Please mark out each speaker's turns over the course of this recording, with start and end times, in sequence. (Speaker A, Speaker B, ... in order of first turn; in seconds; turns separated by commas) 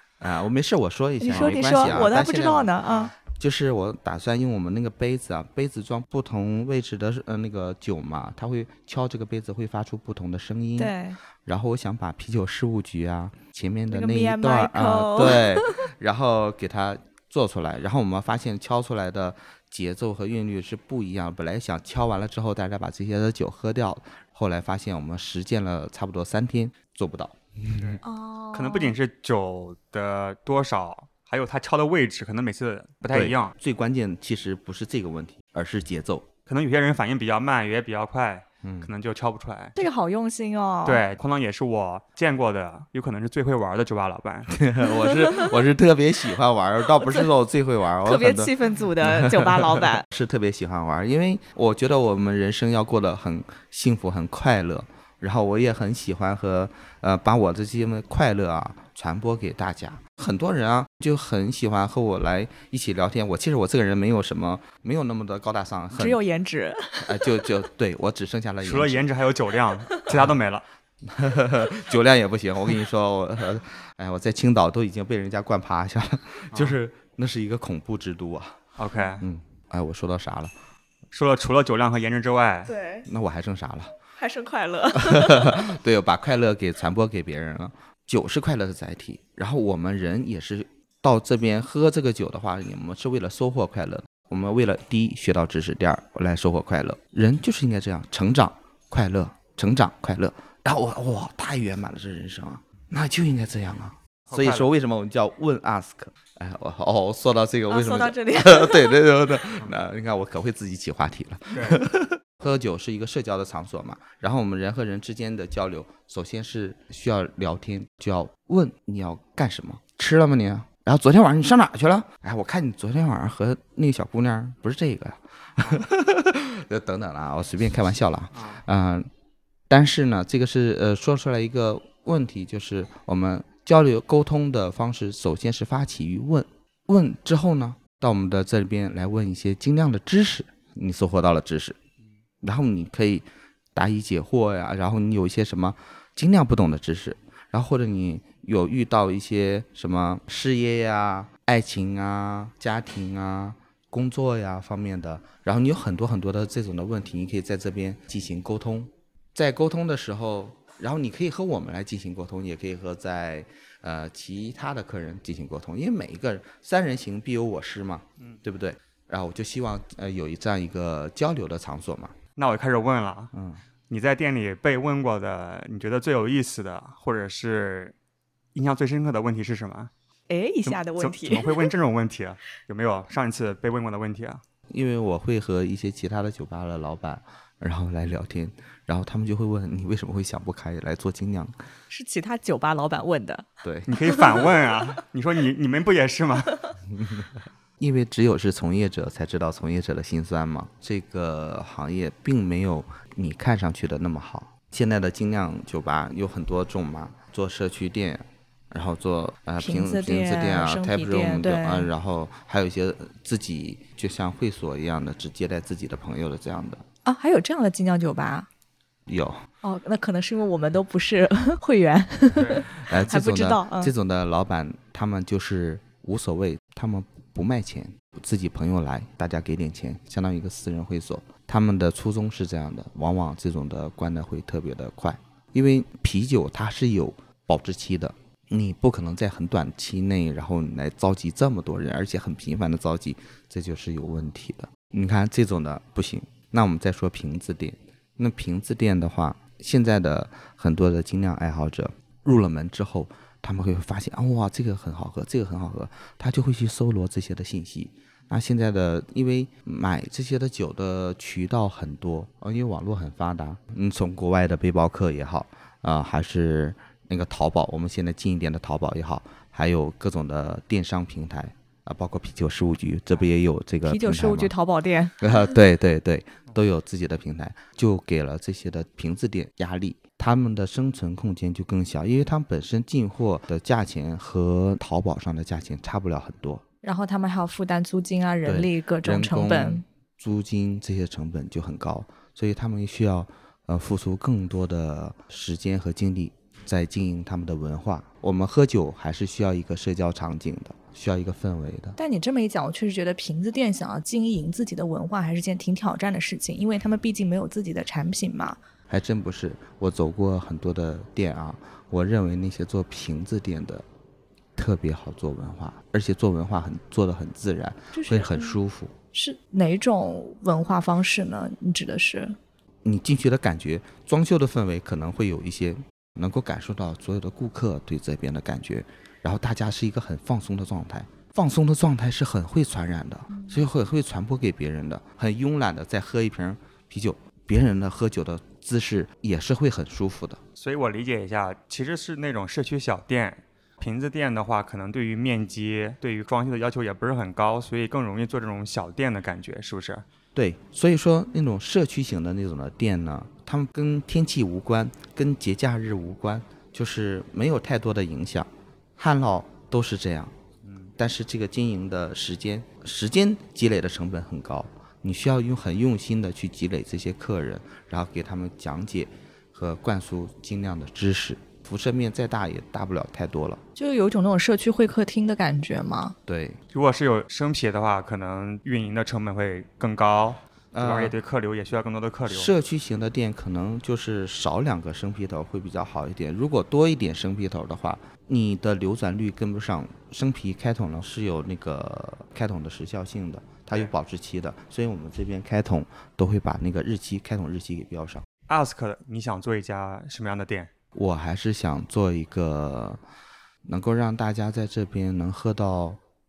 Speaker A: 0.2-28.0, Speaker B: 1.2-3.1, Speaker C: 1.3-1.6, Speaker B: 10.8-11.2, Speaker B: 13.9-15.8, Speaker C: 27.7-28.0, Speaker B: 28.0-28.9, Speaker C: 28.5-33.5, Speaker A: 33.0-36.3, Speaker C: 36.5-39.8, Speaker A: 38.6-38.9, Speaker B: 39.8-41.0, Speaker C: 40.9-44.5, Speaker A: 44.5-66.2, Speaker B: 45.2-45.5, Speaker B: 47.0-47.3, Speaker B: 48.0-50.0, Speaker B: 65.9-67.4, Speaker A: 67.0-69.1, Speaker C: 68.6-70.6, Speaker A: 71.0-78.6, Speaker C: 78.8-79.2, Speaker A: 79.2-80.5, Speaker C: 81.1-82.7, Speaker B: 82.7-83.1, Speaker A: 83.1-83.9, Speaker B: 84.2-85.6, Speaker A: 84.9-129.1, Speaker C: 104.3-104.7, Speaker B: 107.7-109.3, Speaker C: 111.5-111.8, Speaker C: 128.3-128.6, Speaker A: 129.7-141.8, Speaker A: 142.4-172.1, Speaker C: 172.4-173.3, Speaker A: 173.3-173.6, Speaker C: 173.9-177.9, Speaker C: 178.5-179.9, Speaker B: 180.3-181.7, Speaker C: 180.7-184.4, Speaker A: 184.7-191.5, Speaker B: 191.9-193.5, Speaker A: 193.6-193.9, Speaker C: 193.9-196.6, Speaker B: 194.0-194.8, Speaker A: 196.9-216.8, Speaker B: 209.6-211.9, Speaker B: 217.1-218.5, Speaker A: 219.1-219.4, Speaker B: 219.6-223.9, Speaker C: 222.3-222.7, Speaker A: 222.8-274.5, Speaker B: 273.8-275.3, Speaker A: 275.2-286.6, Speaker B: 286.8-289.8, Speaker A: 288.4-302.0, Speaker B: 302.0-308.6, Speaker A: 308.9-313.8, Speaker A: 314.5-318.9, Speaker B: 317.9-318.6, Speaker B: 319.1-322.4, Speaker A: 322.8-340.4, Speaker B: 333.3-333.6, Speaker C: 340.6-350.0, Speaker A: 350.3-360.3, Speaker C: 360.6-360.9, Speaker A: 360.9-373.6, Speaker B: 373.8-376.1, Speaker A: 376.2-376.6, Speaker C: 376.7-382.5, Speaker A: 380.7-381.1, Speaker A: 382.3-398.2, Speaker C: 398.5-400.7, Speaker A: 400.9-403.0, Speaker A: 403.6-406.0